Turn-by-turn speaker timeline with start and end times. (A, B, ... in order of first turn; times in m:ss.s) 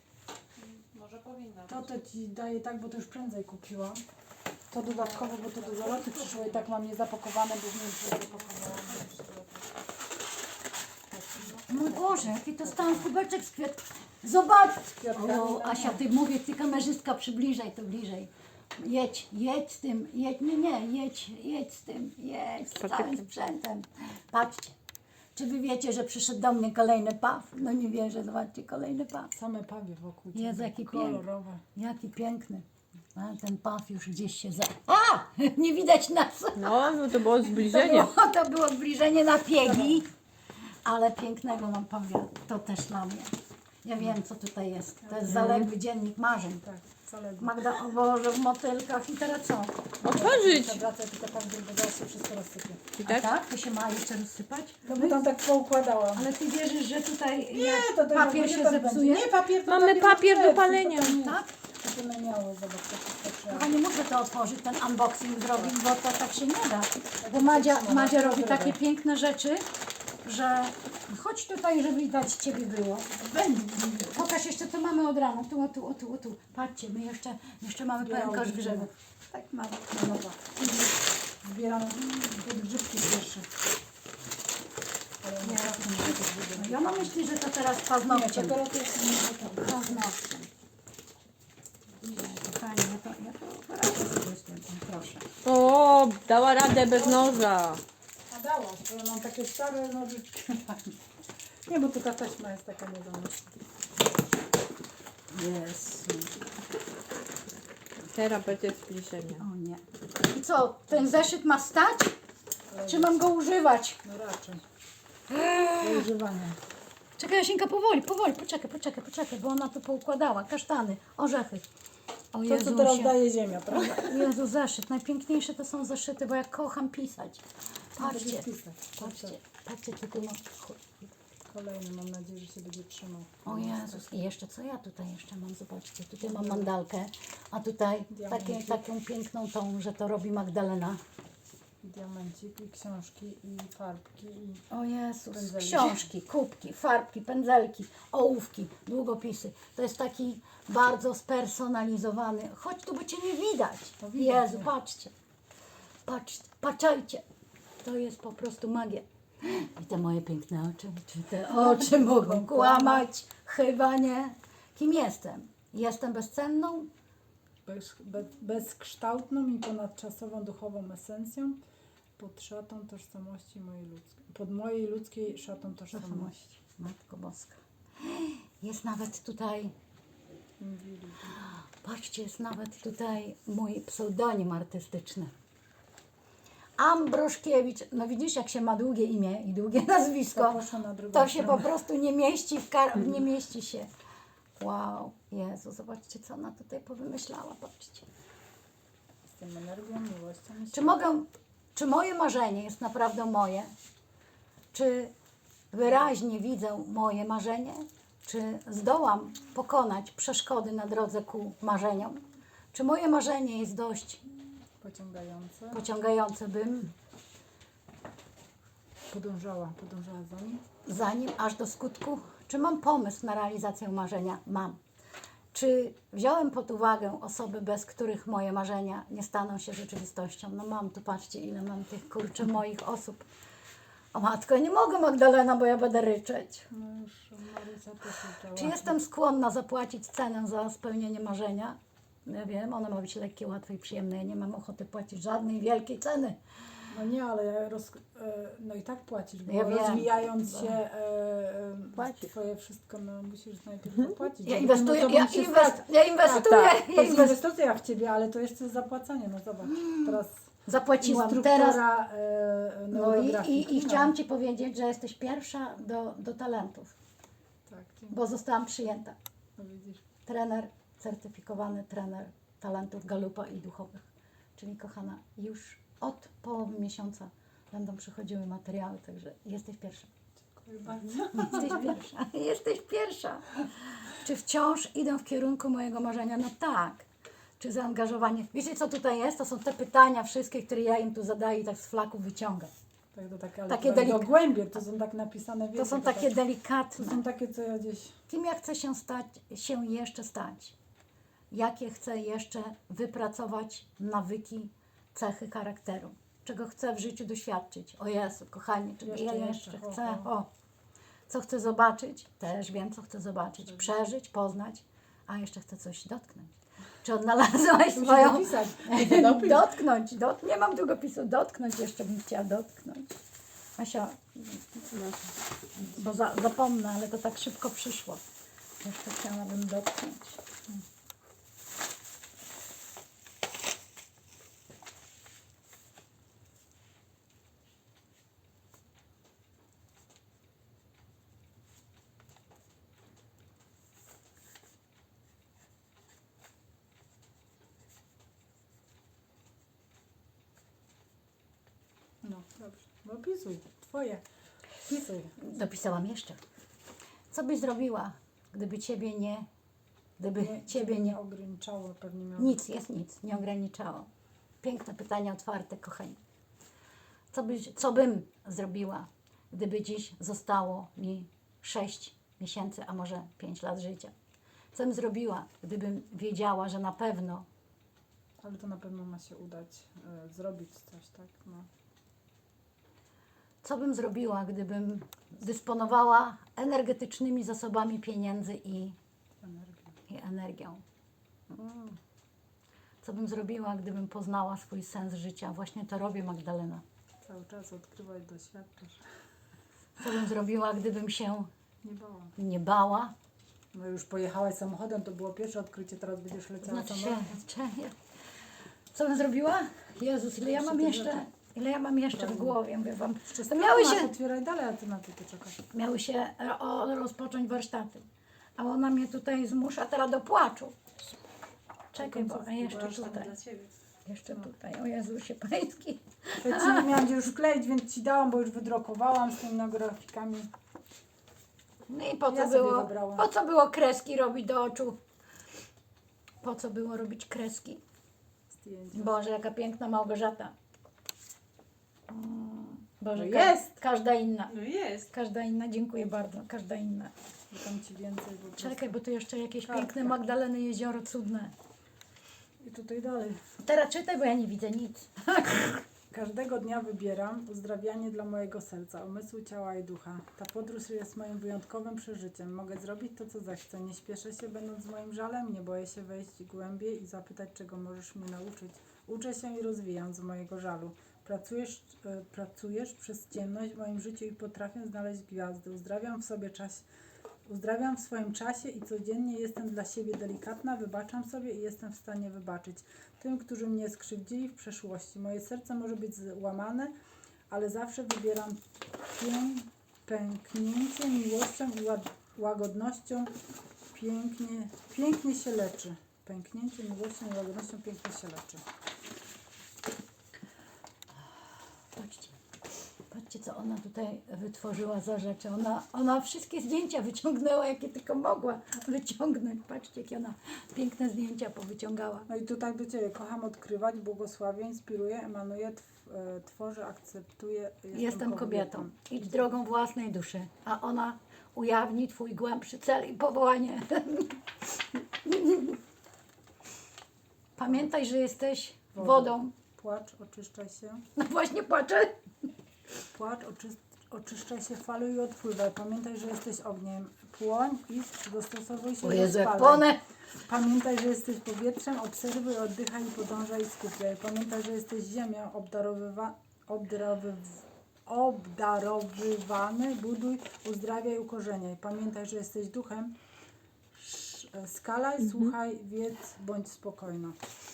0:00.6-0:01.9 A
0:01.7-0:04.0 B
0:04.7-0:09.6 B
0:04.8-0:06.7 A
0:11.1-0:13.0 B
0:11.7-0:24.8 C
0:15.0-0:16.0 B
0:22.8-0:23.2 D
0:25.4-0:29.3 C
0:29.3-0:31.6 B
0:30.3-0:31.2 C
0:31.8-0:40.1 C
0:36.6-0:38.1 D
0:39.6-0:40.0 B
0:40.8-0:43.3 C
0:43.8-0:46.6 C
0:45.0-0:45.7 B
0:46.6-0:47.6 B
0:47.4-0:49.9 C
0:50.0-0:52.9 B
0:50.0-0:50.8 D
0:53.0-0:53.3 D
0:53.0-0:55.2 C
0:54.8-0:56.3 B
0:56.2-0:59.3 C
0:57.5-1:03.7 B
0:59.6-1:01.2 D
1:01.2-1:01.5 C
1:03.5-1:09.6 C
1:07.2-1:08.8 B
1:10.2-1:20.9 C
1:13.3-1:13.8 B
1:18.0-1:18.9 B
1:19.9-1:20.4 B
1:21.4-1:23.5 B
1:25.2-1:27.2 B
1:25.4-1:28.6 C
1:28.1-1:30.1 B
1:29.6-1:30.5 C
1:32.0-1:35.2 C
1:35.4-1:37.8 D
1:36.9-1:37.4 B
1:38.3-1:41.0 B
1:41.7-1:43.5 B
1:45.3-1:46.3 C
1:48.0-1:49.4 D
1:49.4-1:52.2 C
1:52.7-1:53.2 B
1:52.9-1:54.0 C
1:54.0-1:54.6 B
1:55.3-1:56.0 C
1:55.8-1:56.6 B
1:57.2-2:01.6 C
2:02.3-2:07.4 C
2:02.4-2:04.3 B
2:08.0-2:08.5 C
2:08.0-2:09.4 B
2:09.0-2:11.2 C
2:11.5-2:14.3 B
2:13.4-2:21.0 C
2:16.2-2:16.7 B
2:18.1-2:18.8 B
2:21.8-2:24.6 B
2:24.7-2:35.1 C
2:25.3-2:26.1 B
2:34.0-2:34.7 B
2:36.1-2:37.2 C
2:37.8-2:46.9 C
2:41.5-2:43.1 B
2:47.7-2:51.6 B
2:52.2-2:56.6 B
2:55.9-2:59.7 C
3:00.6-3:01.4 B
3:01.4-3:05.3 C
3:06.8-3:10.6 C
3:10.3-3:11.7 B
3:11.1-3:13.9 C
3:14.6-3:18.1 C
3:19.2-3:21.0 B
3:20.7-3:23.7 C
3:24.7-3:25.1 C
3:25.7-3:32.2 C
3:32.7-3:34.2 C
3:34.8-3:35.8 B
3:35.7-3:36.9 C
3:39.1-3:40.6 B
3:40.8-3:44.8 C
3:45.5-3:53.3 C
3:54.1-3:56.7 C
3:56.7-3:59.0 B
3:58.6-4:06.4 C
4:06.9-4:20.4 B
4:09.5-4:10.8 C
4:12.0-4:12.3 D
4:14.4-4:17.4 C
4:19.7-4:21.8 C
4:21.0-4:24.2 B
4:22.9-4:27.0 C
4:27.7-4:28.2 B
4:28.1-4:29.2 C
4:29.6-4:30.0 B
4:30.3-4:34.0 C
4:34.6-4:40.1 C
4:40.6-4:41.9 B
4:41.3-4:47.1 C
4:47.6-4:52.7 C
4:53.1-4:56.4 B
4:53.7-4:54.3 C
4:55.8-4:57.2 C
4:57.0-4:58.2 B
4:58.3-5:00.8 C
5:01.5-5:10.5 C
5:09.0-5:10.3 B
5:11.3-5:16.5 C
5:17.0-5:23.2 C
5:17.9-5:19.7 B
5:23.8-5:25.2 C
5:25.8-5:28.2 C
5:28.8-5:30.4 C
5:52.2-5:54.2 B
5:54.8-5:55.4 B
5:55.4-5:56.4 C
5:57.3-5:59.5 C
6:00.2-6:01.2 C
6:00.4-6:02.6 B
6:02.4-6:04.1 C
6:04.6-6:06.2 C
6:07.3-6:14.1 C
6:14.7-6:17.5 C
6:18.4-6:21.7 B
6:23.6-6:29.0 C
6:29.4-6:30.0 B
6:30.1-6:30.8 C
6:31.5-6:32.0 B
6:33.0-6:36.8 C
6:37.2-6:39.0 B
6:40.0-6:41.5 C
6:41.8-6:42.3 B
6:42.4-6:43.1 C
6:43.7-6:47.4 B
6:46.6-6:48.0 C
6:48.9-6:54.2 C
6:50.4-6:51.3 B
6:52.1-6:52.6 B
6:53.3-6:55.6 B
6:55.7-6:58.0 C
6:58.6-7:00.8 C
7:01.9-7:03.4 C
7:02.0-7:03.0 B
7:02.6-7:03.7 A
7:04.0-7:06.9 C
7:06.4-7:10.5 B
7:11.9-7:15.0 C
7:12.3-7:13.3 B
7:16.4-7:17.8 C
7:18.5-7:19.2 B
7:18.9-7:20.5 C
7:22.1-7:27.1 C
7:23.2-7:23.8 B
7:24.5-7:25.1 A
7:27.5-7:28.9 B
7:28.6-7:31.5 C
7:29.6-7:30.2 B
7:32.6-7:33.4 B
7:33.6-7:35.8 C
7:36.1-7:56.8 B
7:57.5-8:06.9 B
8:07.5-8:08.6 B
8:09.2-8:13.3 B
8:13.9-8:18.6 B
8:21.9-8:22.4 C
8:23.1-8:32.3 C
8:32.3-8:39.3 B
8:37.9-8:44.4 C
8:45.2-8:45.8 C
8:47.6-8:49.5 C
8:48.9-8:51.0 B
8:51.2-8:52.2 C
8:53.1-8:59.9 B
8:59.0-9:00.0 C
9:00.5-9:13.1 B
9:13.9-9:17.4 B